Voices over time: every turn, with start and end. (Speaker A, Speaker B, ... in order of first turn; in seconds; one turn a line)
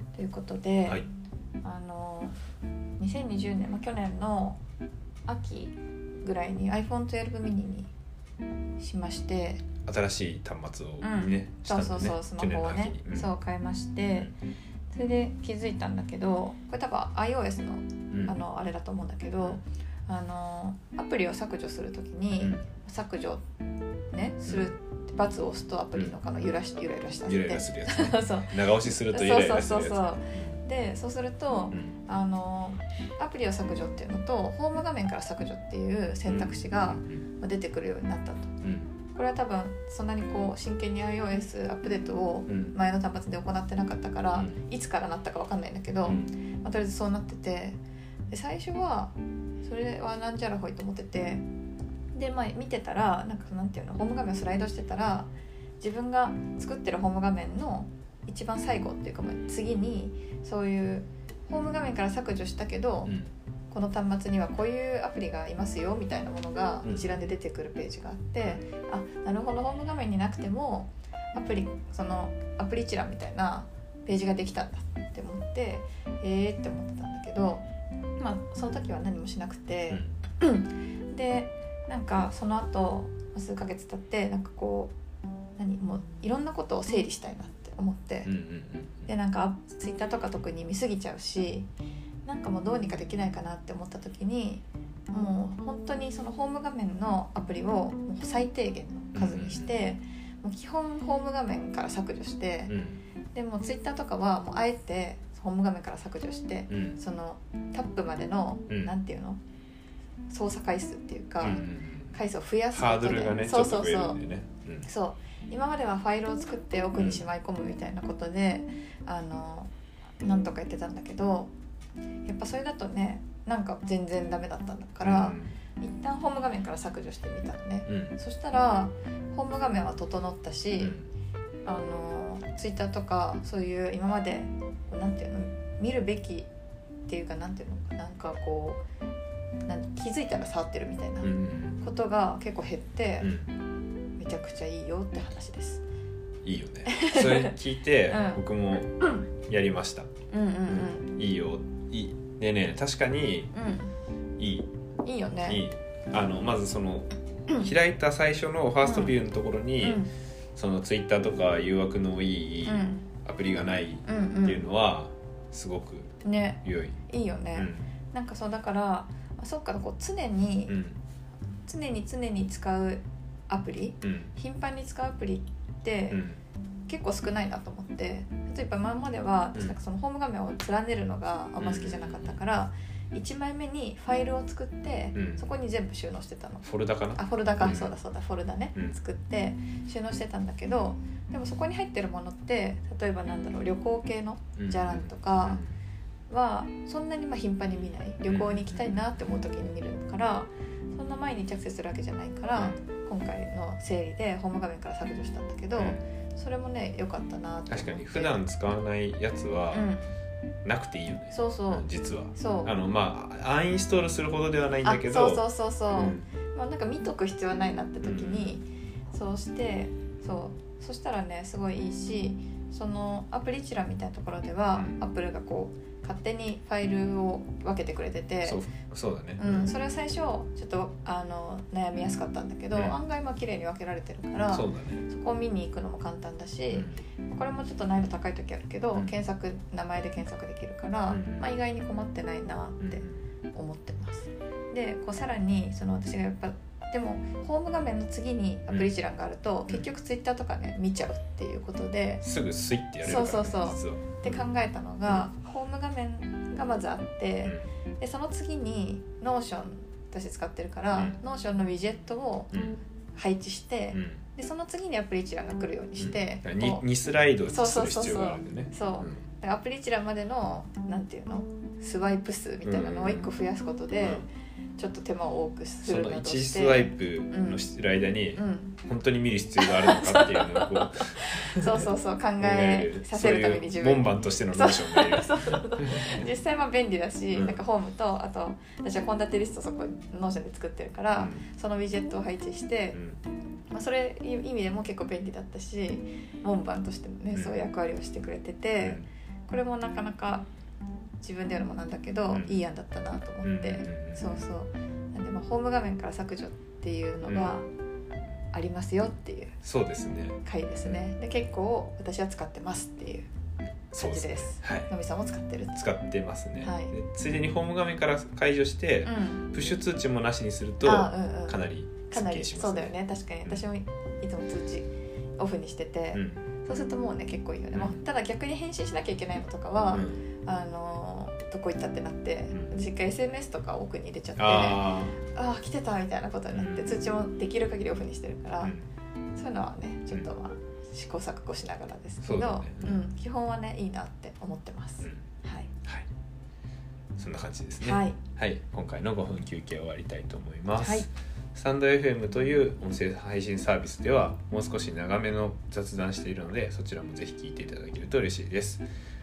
Speaker A: 0.1-1.0
Speaker A: 1.6-2.4
Speaker A: 3.0-4.6
Speaker A: 5.3-7.9
Speaker A: 8.8-9.7
Speaker B: 9.8-13.3
Speaker A: 11.0-14.3
Speaker A: 14.9-23.4
Speaker B: 18.1-18.4
Speaker A: 24.1-38.5
Speaker B: 24.5-24.7
Speaker B: 27.2-30.6
Speaker B: 36.3-37.2
Speaker B: 38.6-38.9
Speaker A: 39.1-47.8
Speaker B: 42.5-42.8
Speaker B: 46.0-46.3
Speaker A: 48.3-51.4
Speaker A: 52.1-63.2
Speaker A: 63.7-77.7
Speaker B: 66.8-67.2
Speaker A: 78.2-85.0
Speaker B: 79.9-80.2
Speaker A: 85.6-88.3
Speaker B: 88.2-89.1
Speaker A: 89.1-91.7
Speaker A: 92.2-102.8
Speaker B: 99.1-99.7
Speaker B: 102.7-103.0
Speaker A: 103.3-109.4
Speaker B: 106.7-107.0
Speaker A: 110.3-114.2
Speaker B: 111.4-112.2
Speaker B: 112.7-114.9
Speaker A: 114.8-121.5
Speaker B: 117.0-117.3
Speaker A: 122.2-131.0
Speaker B: 125.0-125.5
Speaker B: 127.9-128.2
Speaker B: 130.8-131.1
Speaker A: 131.7-136.5
Speaker A: 137.1-138.8
Speaker A: 139.7-143.3
Speaker B: 141.2-141.8
Speaker B: 143.2-143.5
Speaker A: 144.2-145.8
Speaker B: 146.4-150.1
Speaker A: 146.9-147.6
Speaker A: 148.1-148.4
Speaker A: 150.3-151.2
Speaker B: 150.7-153.5
Speaker A: 153.5-153.9
Speaker B: 154.4-154.7
Speaker A: 155.0-155.6
Speaker B: 155.4-160.0
Speaker A: 158.8-159.2
Speaker A: 159.8-160.1
Speaker B: 160.6-166.1
Speaker A: 162.7-163.1
Speaker A: 164.1-164.6
Speaker A: 166.2-170.8
Speaker B: 166.6-167.0
Speaker B: 167.6-167.9
Speaker B: 170.7-171.0
Speaker A: 171.7-176.2
Speaker B: 174.0-174.3
Speaker B: 176.1-176.4
Speaker A: 176.9-195.6
Speaker B: 181.6-182.4
Speaker B: 185.2-185.5
Speaker B: 186.6-187.9
Speaker B: 194.6-195.7
Speaker A: 196.3-208.4
Speaker B: 198.3-198.9
Speaker B: 205.8-206.0
Speaker B: 207.7-209.9
Speaker A: 209.7-210.1
Speaker B: 210.7-216.3
Speaker A: 211.3-212.8
Speaker A: 214.8-228.6
Speaker B: 218.0-218.6
Speaker B: 228.4-229.7
Speaker A: 229.4-252.2
Speaker B: 232.7-233.0
Speaker B: 234.5-235.0
Speaker B: 236.7-237.0
Speaker B: 238.9-239.2
Speaker B: 241.1-241.5
Speaker B: 242.8-243.2
Speaker B: 252.2-254.4
Speaker A: 253.0-266.9
Speaker B: 262.5-262.8
Speaker B: 263.9-264.2
Speaker B: 266.0-269.2
Speaker A: 267.5-277.6
Speaker B: 272.6-273.3
Speaker B: 274.0-274.3
Speaker B: 275.8-286.3
Speaker A: 278.4-278.8
Speaker A: 279.6-293.0
Speaker B: 287.3-287.6
Speaker B: 291.2-291.4
Speaker A: 293.7-300.5
Speaker B: 298.8-299.1
Speaker A: 301.2-307.7
Speaker B: 302.3-302.6
Speaker B: 303.4-304.4
Speaker B: 307.3-307.6
Speaker A: 308.5-309.6
Speaker B: 309.6-311.0
Speaker A: 310.4-313.3
Speaker B: 313.9-314.9
Speaker A: 314.0-315.8
Speaker B: 315.7-322.9
Speaker A: 316.6-316.9
Speaker A: 319.1-319.5
Speaker A: 320.8-338.8
Speaker B: 326.1-326.6
Speaker B: 327.7-328.0
Speaker B: 329.9-330.2
Speaker B: 332.5-332.8
Speaker B: 334.4-335.2
Speaker B: 336.5-337.0
Speaker B: 338.6-338.9
Speaker A: 339.4-345.7
Speaker B: 342.2-343.0
Speaker B: 347.2-358.8
Speaker A: 347.8-348.2
Speaker A: 350.8-351.1